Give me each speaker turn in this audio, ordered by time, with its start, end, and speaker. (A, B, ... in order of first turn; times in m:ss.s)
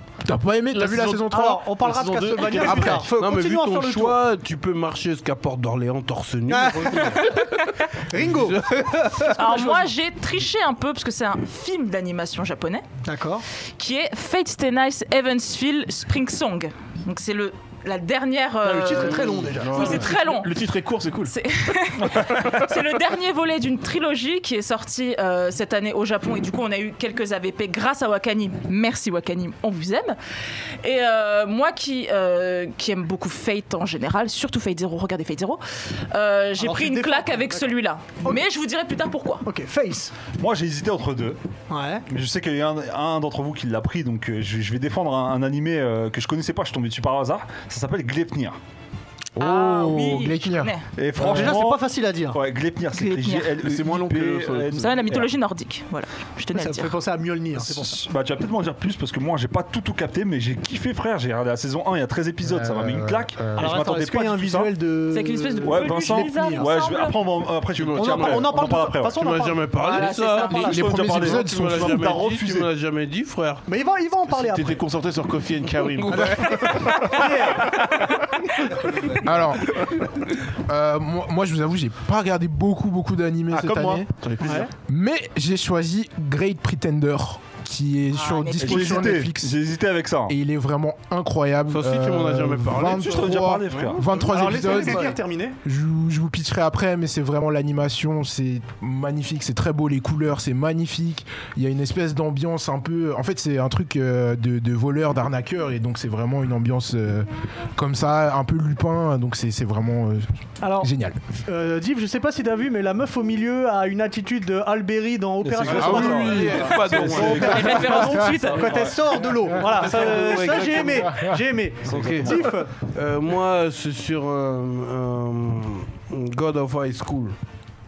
0:00.2-0:01.6 A
0:00.7-0:03.1 B
0:01.3-0:04.2 C
0:02.6-0:03.1 A
0:03.1-0:09.7 D
0:06.5-0:08.6 C
0:09.2-0:09.9 C
0:09.4-0:12.8 E
0:13.0-0:13.4 C
0:13.8-0:20.6 E
0:18.6-0:20.1 C
0:19.6-0:21.3 B
0:21.3-0:30.2 E
0:22.1-0:22.4 F
0:30.8-0:39.4 E
0:36.6-0:37.7 C
0:39.4-0:40.2 C
0:40.4-0:41.4 F
0:41.7-0:42.0 C
0:42.1-0:48.6 F
0:49.4-0:50.7 A
0:49.4-0:50.9 E
0:51.0-0:55.3 F
0:51.2-0:52.4 C
0:52.9-0:53.6 E
0:53.6-0:55.0 B
0:54.8-0:57.0 E
0:56.6-0:58.0 C
0:57.6-1:04.7 F
1:02.5-1:03.8 A
1:03.6-1:06.7 C
1:05.1-1:07.2 E
1:05.6-1:09.2 F
1:07.7-1:13.6 D
1:08.0-1:10.6 C
1:09.9-1:10.8 E
1:10.5-1:12.7 F
1:10.6-1:12.2 A
1:13.7-1:14.8 C
1:14.4-1:17.3 B
1:15.9-1:17.3 D
1:16.1-1:18.0 C
1:18.7-1:19.2 D
1:19.2-1:19.8 A
1:19.7-1:20.1 D
1:20.6-1:24.1 A
1:23.5-1:24.7 B
1:24.4-1:24.7 C
1:24.9-1:29.6 A
1:28.2-1:29.1 E
1:28.6-1:30.4 F
1:30.3-1:51.2 A
1:31.7-1:33.8 D
1:32.9-1:34.1 F
1:33.7-1:35.6 C
1:34.8-1:35.1 D
1:50.6-1:50.9 C
1:51.4-2:02.7 C
1:55.4-1:58.0 F
1:55.7-1:58.2 A
1:55.9-1:58.0 D
1:57.2-1:58.9 E
1:58.6-1:59.1 F
1:59.6-2:01.1 D
2:01.8-2:02.5 F
2:01.9-2:07.3 D